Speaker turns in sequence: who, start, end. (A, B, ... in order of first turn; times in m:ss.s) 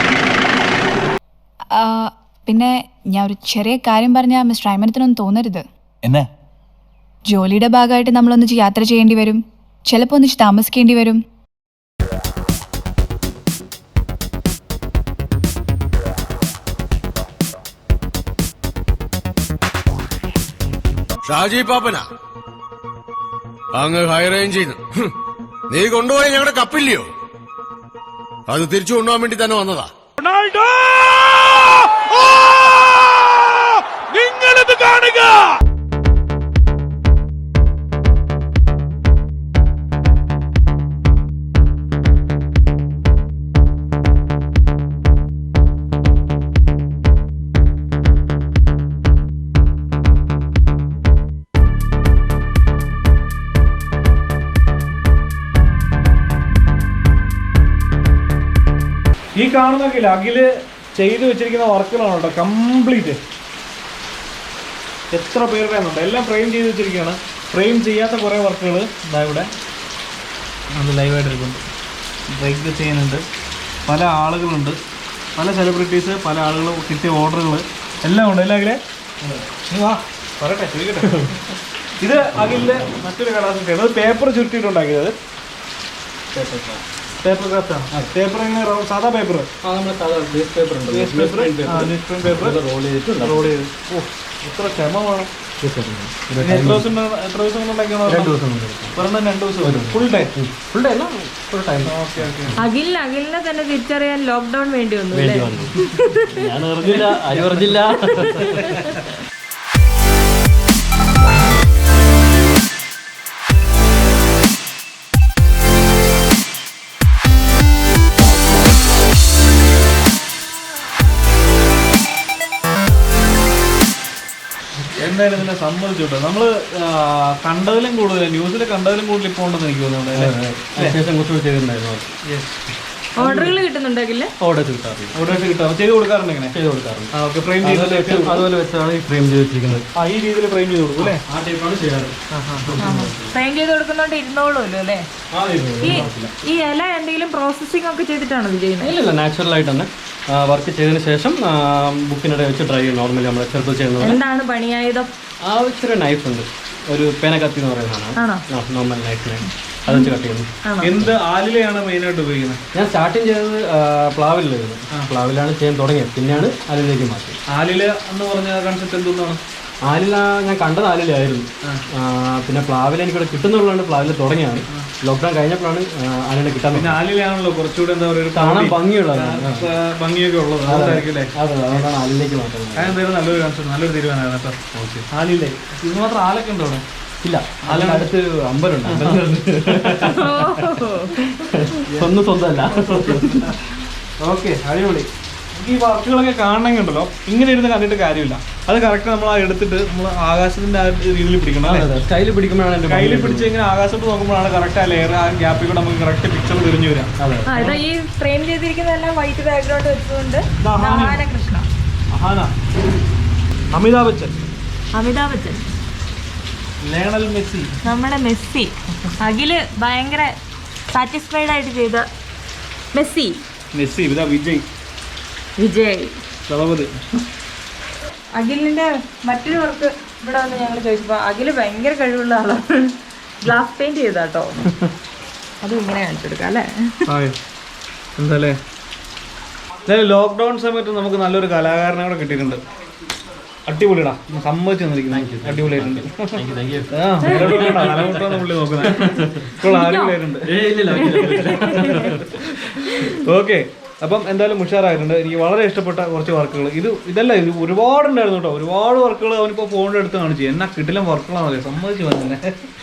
0:01.7-0:05.6 A
0:07.3-0:11.2 A
0:21.2-0:22.0 B
0:23.7-0:25.1 B
0:25.7-0:27.1 B
0:28.5-0:35.5 B
0:59.4-1:03.2 C
1:05.1-1:09.5 C
1:10.7-1:11.6 C
1:12.3-1:13.2 C
1:13.8-1:14.8 C
1:15.4-1:21.2 C
1:21.0-1:21.4 D
1:22.0-1:25.1 C
1:26.3-1:26.8 D
1:27.2-1:29.5 C
1:29.6-1:33.5 D
1:30.9-1:32.6 C
1:33.2-1:35.3 C
1:35.6-1:36.9 D
1:36.4-1:38.3 C
1:38.1-1:39.0 D
1:38.9-1:40.3 C
1:39.6-1:42.6 D
1:41.8-1:42.6 C
1:42.6-1:46.4 E
1:45.1-1:48.8 D
1:46.9-1:47.7 C
1:47.9-1:48.9 E
1:48.3-1:48.8 C
2:04.9-2:11.0 C
2:10.1-2:12.1 D
2:12.2-2:12.6 C
2:13.2-2:14.3 E
2:13.2-2:13.5 D
2:14.4-2:15.2 D
2:15.1-2:16.5 C
2:16.5-2:17.1 D
2:17.1-2:18.4 C
2:17.6-2:19.8 D
2:19.9-2:21.2 C
2:21.0-2:23.3 D
2:22.3-2:22.9 C
2:22.8-2:25.0 E
2:25.3-2:26.3 D
2:25.8-2:28.9 E
2:28.8-2:34.2 D
2:34.0-2:35.1 E
2:35.4-2:40.5 D
2:38.2-2:38.4 E
2:39.9-2:40.9 E
2:40.8-2:42.6 C
2:42.7-2:47.4 D
2:47.5-2:49.4 C
2:49.8-2:57.0 D
2:56.7-3:01.3 C
2:58.3-2:59.7 D
3:00.6-3:03.0 D
3:02.8-3:04.6 C
3:04.7-3:05.1 D
3:05.1-3:06.8 C
3:07.2-3:10.7 D
3:07.7-3:08.1 C
3:08.9-3:09.2 C
3:09.8-3:10.1 C
3:10.1-3:11.7 E
3:11.4-3:13.5 D
3:12.7-3:13.5 C
3:14.2-3:21.9 C
3:21.6-3:23.5 D
3:22.8-3:27.1 C
3:27.2-3:27.8 D
3:27.5-3:31.7 E
3:30.6-3:31.2 C
3:32.1-3:32.5 C
3:33.7-3:34.4 C
3:34.9-3:35.7 E
3:36.8-3:37.7 C
3:37.8-3:40.3 E
3:40.9-3:42.0 E
3:42.9-3:43.4 E
3:43.7-3:44.6 C
3:45.6-3:46.2 E
3:46.5-3:46.9 C
3:48.3-3:54.6 E
3:55.6-3:57.0 E
3:57.1-3:57.4 C
3:58.2-3:58.6 C
3:59.8-4:02.6 C
4:03.7-4:10.5 C
4:05.1-4:09.6 D
4:07.3-4:07.8 E
4:09.6-4:10.2 E
4:10.4-4:13.0 D
4:10.9-4:12.1 E
4:11.3-4:12.2 C
4:13.0-4:22.5 C